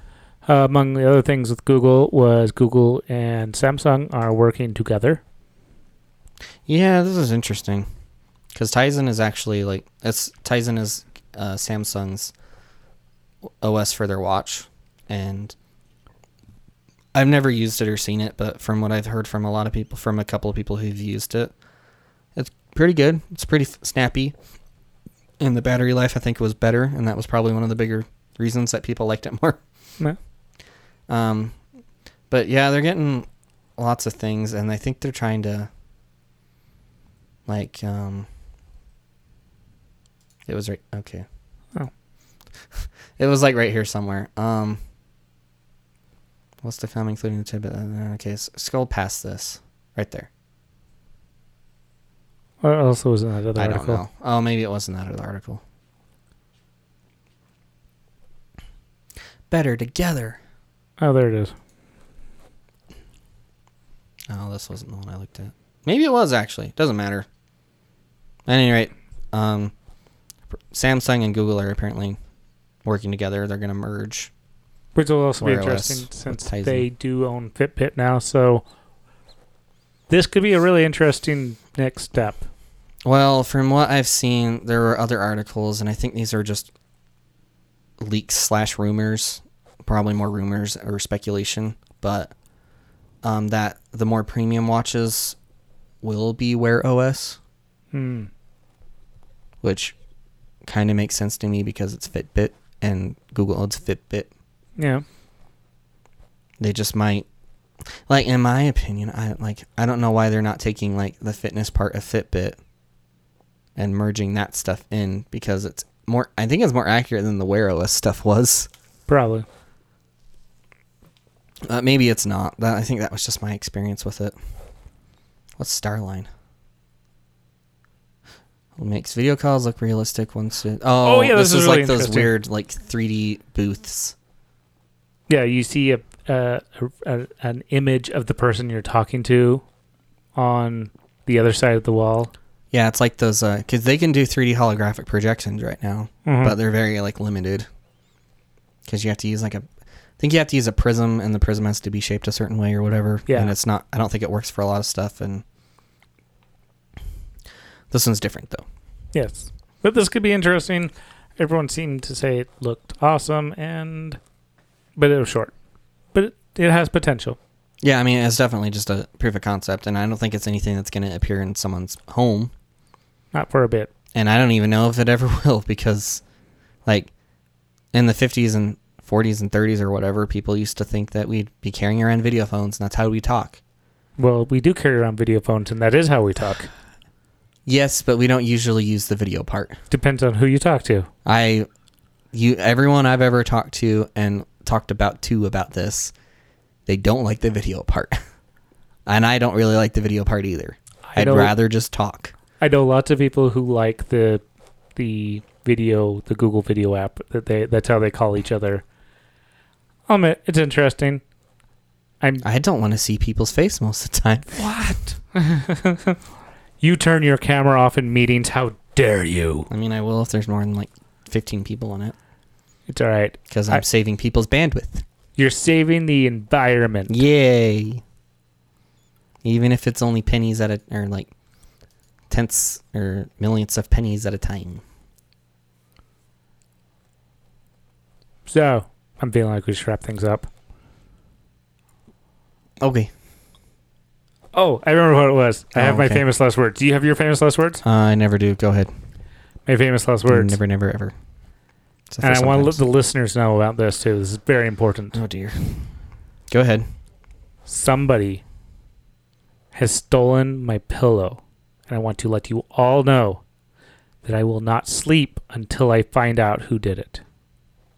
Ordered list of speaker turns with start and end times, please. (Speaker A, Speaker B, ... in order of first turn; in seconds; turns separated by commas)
Speaker A: 0.5-5.2, Speaker B: 6.7-7.9, Speaker B: 8.5-12.3, Speaker B: 13.6-15.6, Speaker B: 17.1-21.5, Speaker B: 22.3-24.4, Speaker B: 25.4-29.6, Speaker B: 31.1-31.6, Speaker B: 32.3-35.7, Speaker B: 37.5-38.3, Speaker B: 40.5-41.2, Speaker B: 42.7-44.8, Speaker B: 46.6-50.3, Speaker A: 52.6-54.0, Speaker B: 53.5-55.6, Speaker B: 59.5-60.4, Speaker A: 61.0-61.5, Speaker B: 64.3-67.3, Speaker B: 68.5-69.7, Speaker B: 70.7-72.2, Speaker B: 72.8-74.3, Speaker A: 74.9-78.6, Speaker B: 75.4-76.8, Speaker A: 80.1-82.5, Speaker B: 83.0-86.7, Speaker B: 88.0-92.3, Speaker B: 93.2-95.4, Speaker B: 96.0-97.4, Speaker A: 97.9-98.3, Speaker B: 99.6-100.0, Speaker B: 100.6-104.3, Speaker A: 104.8-105.0, Speaker B: 106.6-107.2, Speaker B: 107.8-112.6, Speaker B: 113.8-118.7, Speaker A: 119.1-119.4, Speaker B: 121.7-124.3, Speaker B: 125.6-126.3, Speaker B: 128.8-134.1, Speaker A: 131.0-132.3, Speaker A: 135.3-139.6, Speaker A: 140.3-142.3, Speaker B: 142.7-147.7, Speaker A: 146.2-146.5, Speaker B: 148.9-149.6, Speaker B: 150.2-155.4, Speaker A: 153.3-153.5, Speaker B: 157.9-158.6, Speaker A: 159.1-164.2, Speaker A: 165.0-165.5, Speaker A: 166.1-167.4, Speaker B: 167.8-172.5, Speaker A: 173.3-173.9, Speaker B: 174.1-176.2, Speaker B: 176.8-177.1, Speaker B: 177.9-183.6, Speaker A: 184.2-186.7, Speaker B: 187.7-189.8, Speaker A: 189.9-191.1, Speaker B: 191.2-191.7, Speaker B: 192.3-196.1, Speaker B: 196.8-198.2, Speaker B: 199.1-202.3, Speaker A: 201.1-201.5, Speaker A: 202.6-204.4, Speaker A: 204.9-208.8, Speaker A: 210.1-211.2, Speaker B: 212.4-214.6, Speaker A: 214.5-216.2, Speaker A: 216.8-219.7, Speaker B: 219.7-222.1, Speaker A: 222.9-223.8, Speaker B: 223.5-225.0, Speaker A: 225.4-227.1, Speaker B: 227.1-228.0, Speaker B: 229.4-231.3, Speaker B: 232.3-234.8, Speaker A: 238.5-240.5, Speaker B: 242.8-243.1, Speaker A: 244.5-247.8, Speaker B: 245.7-246.2, Speaker B: 247.8-248.9, Speaker A: 249.7-250.6, Speaker B: 250.3-251.1, Speaker B: 252.1-252.8, Speaker A: 252.2-255.2, Speaker B: 255.1-255.9, Speaker B: 256.5-256.8, Speaker A: 257.7-258.4, Speaker A: 259.7-263.4, Speaker A: 264.2-267.2